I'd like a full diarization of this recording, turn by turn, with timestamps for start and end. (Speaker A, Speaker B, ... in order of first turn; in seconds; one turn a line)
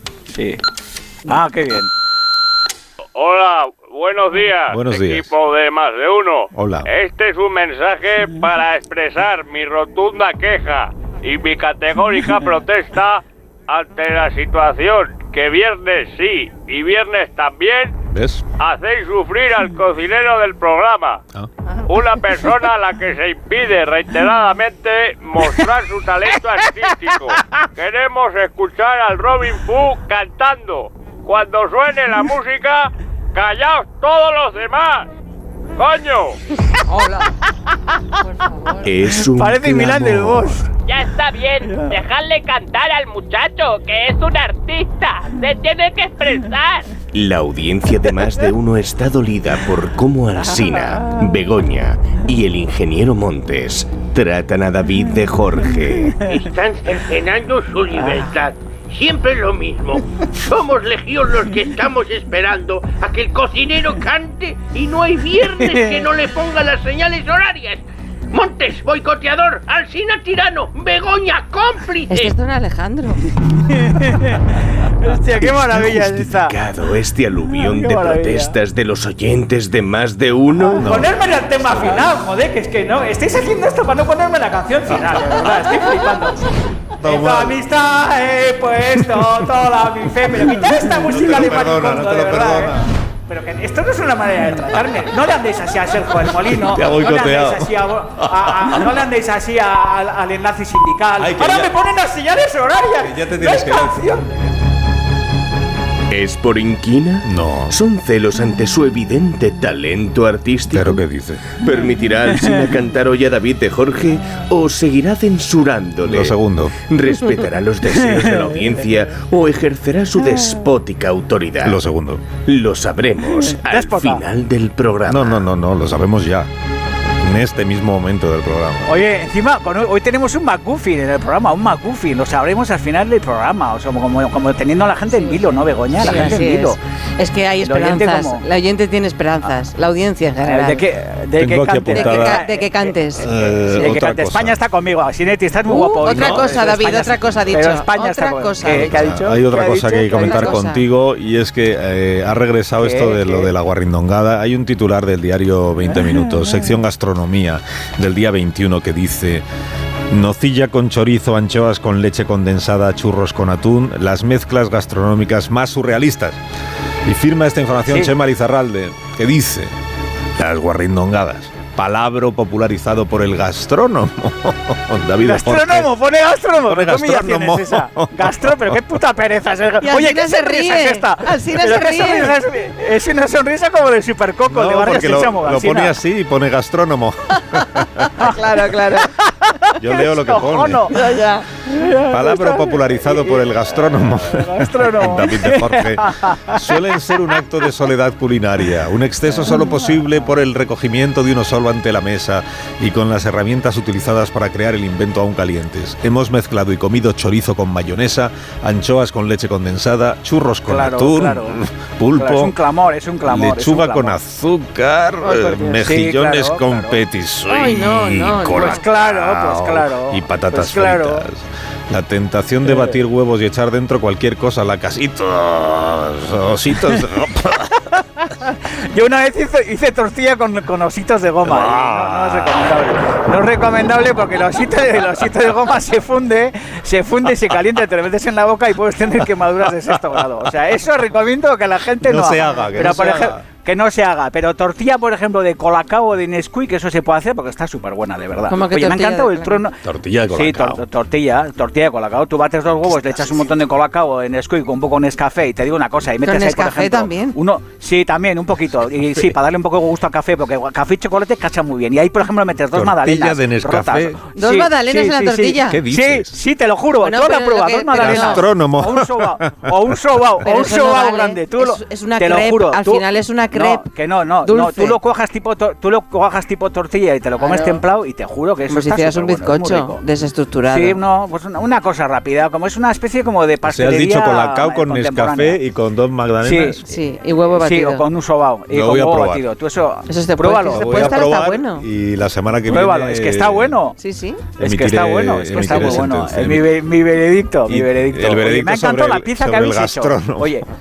Speaker A: 0.3-0.6
Speaker A: 1.3-1.9
Speaker B: 3.2-18.0
Speaker C: 4.7-5.3
Speaker C: 6.5-6.9
Speaker C: 18.1-18.4
Speaker B: 18.6-21.2
Speaker B: 21.9-35.1
Speaker B: 35.8-36.4
Speaker D: 36.9-37.2
Speaker D: 38.3-38.9
Speaker E: 38.8-40.7
Speaker A: 39.3-40.6
Speaker F: 40.9-46.8
Speaker B: 41.2-44.1
Speaker E: 47.1-56.2
Speaker G: 56.3-72.3
Speaker A: 65.6-66.0
Speaker D: 72.1-73.2
Speaker A: 73.7-74.4
Speaker A: 75.0-76.6
Speaker E: 75.5-80.9
Speaker A: 77.5-78.5
Speaker A: 80.8-92.8
Speaker C: 80.8-82.1
Speaker C: 87.0-87.6
Speaker C: 91.1-92.8
Speaker A: 93.3-104.2
Speaker C: 96.5-97.7
Speaker C: 98.2-98.8
Speaker C: 101.2-101.7
Speaker C: 103.0-104.1
Speaker E: 106.1-111.0
Speaker C: 107.2-107.8
Speaker C: 110.7-111.5
Speaker E: 111.6-121.8
Speaker C: 116.0-116.8
Speaker A: 118.1-118.6
Speaker C: 121.6-122.2
Speaker E: 122.5-125.4
Speaker A: 123.5-124.2
Speaker C: 125.1-126.5
Speaker C: 127.2-129.0
Speaker A: 128.8-136.8
Speaker D: 135.1-135.4
Speaker D: 136.0-140.8
Speaker C: 136.0-136.4
Speaker A: 137.6-138.4
Speaker A: 140.4-150.5
Speaker C: 141.3-142.4
Speaker D: 141.9-143.3
Speaker C: 143.2-144.6
Speaker D: 145.7-149.1
Speaker C: 146.1-146.6
Speaker C: 148.7-159.4
Speaker D: 150.1-150.8
Speaker A: 152.8-153.5
Speaker A: 155.9-156.6
Speaker C: 160.1-166.4
Speaker C: 167.0-169.7
Speaker C: 170.4-175.9
Speaker A: 175.2-185.9
Speaker C: 176.7-178.8
Speaker D: 179.8-182.4
Speaker C: 184.5-188.0
Speaker D: 188.2-189.1
Speaker A: 188.9-189.3
Speaker C: 189.8-190.9
Speaker A: 189.8-191.0
Speaker D: 190.9-191.4
Speaker A: 191.7-196.7
Speaker C: 192.1-212.5
Speaker A: 210.7-211.6
Speaker A: 212.2-214.2
Speaker C: 213.2-227.7
Speaker A: 215.2-217.0
Speaker D: 217.5-218.8
Speaker A: 218.5-221.3
Speaker A: 222.7-223.0
Speaker A: 228.5-249.8
Speaker C: 231.4-232.6
Speaker C: 242.0-243.4
Speaker D: 248.5-249.6
Speaker C: 249.8-250.8
Speaker A: 250.3-280.0
Speaker D: 256.2-257.4
Speaker C: 262.7-264.2
Speaker D: 264.4-265.8
Speaker C: 265.7-266.3
Speaker D: 267.0-268.4
Speaker C: 267.9-269.7
Speaker D: 270.4-273.9
Speaker D: 274.4-275.0
Speaker D: 277.4-277.8
Speaker D: 278.7-281.0
Speaker A: 280.7-285.6
Speaker C: 283.6-286.8
Speaker A: 286.4-286.8
Speaker D: 286.9-288.0
Speaker A: 287.5-291.3
Speaker C: 288.7-289.4
Speaker D: 290.1-291.8
Speaker C: 290.7-293.8
Speaker A: 292.7-294.0
Speaker D: 294.0-294.4
Speaker C: 294.6-296.7
Speaker A: 294.6-300.6
Speaker C: 297.7-300.5